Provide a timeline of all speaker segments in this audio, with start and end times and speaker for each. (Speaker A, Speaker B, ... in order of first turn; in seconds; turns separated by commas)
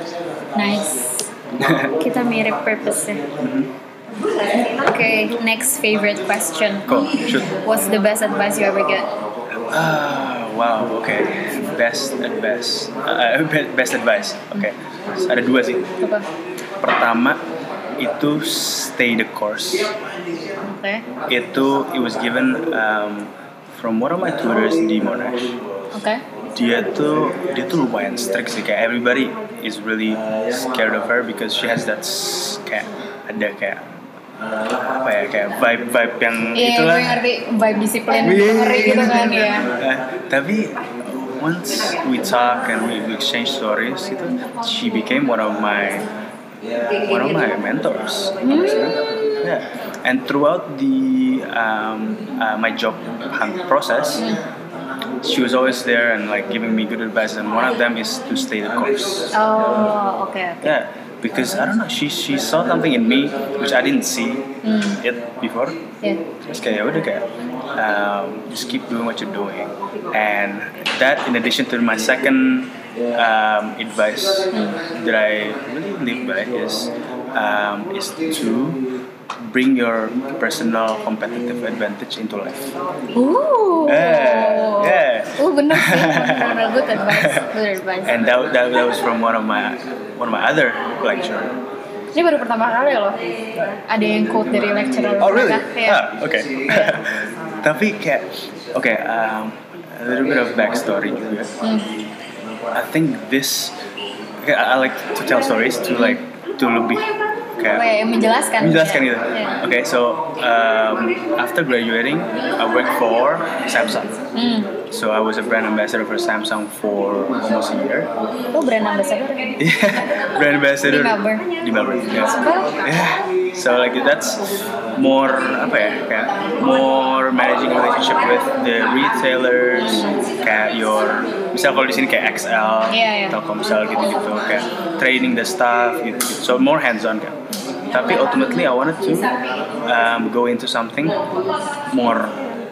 Speaker A: 0.5-1.3, Speaker B: 1.6-1.9, Speaker A: 1.9-3.3, Speaker B: 3.4-3.7, Speaker A: 4.6-9.1, Speaker B: 6.8-7.5, Speaker B: 9.5-15.9, Speaker A: 16.0-16.2, Speaker B: 16.8-17.4, Speaker B: 18.0-19.9, Speaker A: 20.6-21.0, Speaker B: 21.3-25.6, Speaker A: 25.9-26.2, Speaker B: 26.5-33.9, Speaker B: 34.7-37.2, Speaker A: 36.5-39.7, Speaker B: 38.2-46.1, Speaker B: 47.0-54.3, Speaker A: 48.4-48.9, Speaker A: 54.2-54.4, Speaker B: 55.2-59.3, Speaker A: 59.3-60.8, Speaker B: 60.6-64.5, Speaker A: 64.6-65.0, Speaker B: 65.0-65.8, Speaker B: 66.4-78.8, Speaker A: 74.5-74.8, Speaker B: 79.4-82.6, Speaker A: 83.1-88.2, Speaker B: 83.8-87.5, Speaker B: 88.0-91.5, Speaker A: 92.1-96.0, Speaker B: 95.2-101.5, Speaker A: 96.7-97.0, Speaker A: 101.6-101.9, Speaker B: 102.7-103.7, Speaker B: 104.4-107.8, Speaker A: 107.7-109.6, Speaker B: 108.6-114.2, Speaker A: 114.3-114.7, Speaker B: 114.9-118.1, Speaker A: 118.5-119.6, Speaker B: 119.6-141.2, Speaker A: 120.8-121.5, Speaker A: 122.0-122.8, Speaker A: 129.8-130.2, Speaker A: 132.9-133.4, Speaker B: 141.9-142.4